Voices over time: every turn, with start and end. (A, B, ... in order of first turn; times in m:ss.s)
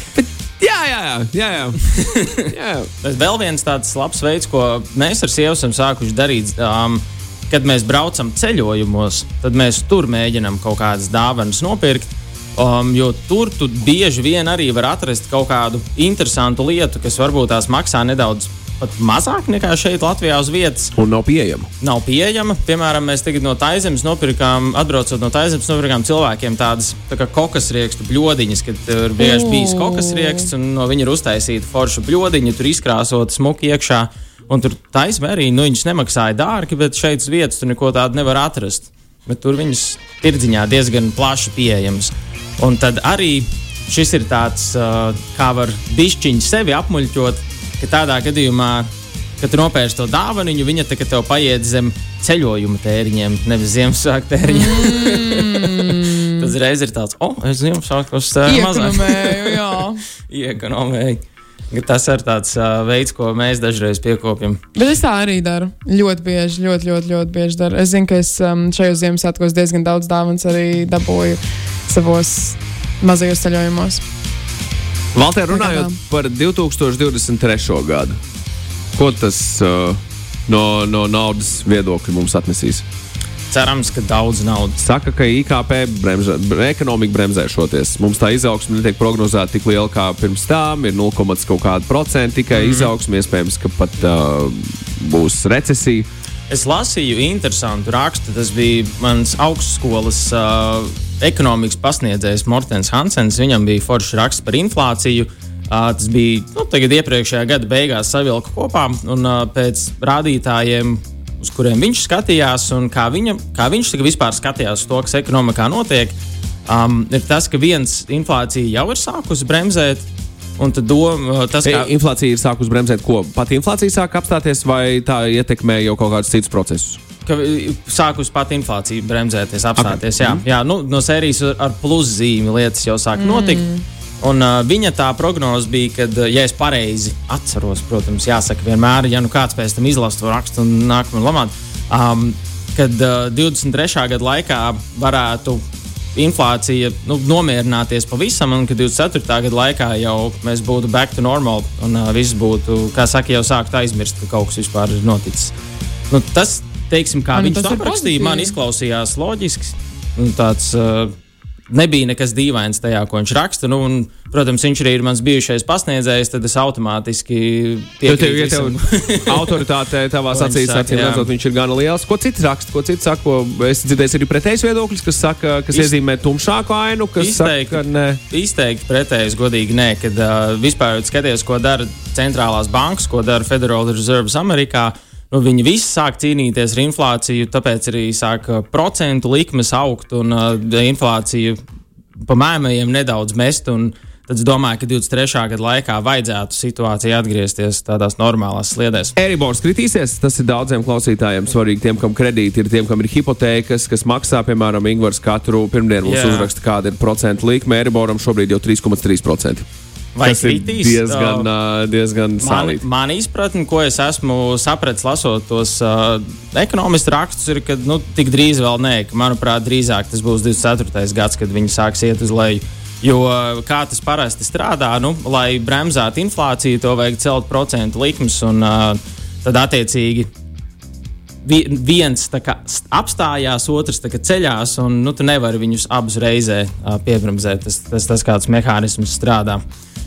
0:00.2-0:02.9 A
0:02.0-0:02.4 B
0:03.0-0:20.9 B
0:21.0-0:21.7 A
0:21.8-0:59.7 B
0:29.2-0:30.2 C
0:54.5-0:56.2 C
0:58.4-1:00.0 C
1:00.3-1:01.2 B
1:01.7-1:04.6 B
1:04.8-1:14.0 C
1:15.1-1:18.2 A
1:15.5-1:15.9 C
1:19.0-1:22.8 A
1:23.5-1:24.8 B
1:24.8-1:36.1 A
1:32.5-1:32.9 B
1:36.5-2:01.9 B
2:01.6-2:07.0 A
2:07.2-2:13.7 B
2:09.8-2:10.4 A
2:13.2-2:13.8 C
2:14.2-2:35.5 B
2:36.1-2:41.1 B
2:37.3-2:38.5 C
2:41.7-2:49.6 B
2:48.0-2:58.2 A
2:50.3-2:51.3 B
2:57.2-3:11.6 B
3:12.3-3:19.1 B
3:19.2-3:29.6 A
3:26.0-3:26.5 B
3:30.2-3:31.5 B
3:30.2-3:32.8 A
3:32.4-3:50.3 B
3:51.4-3:59.6 B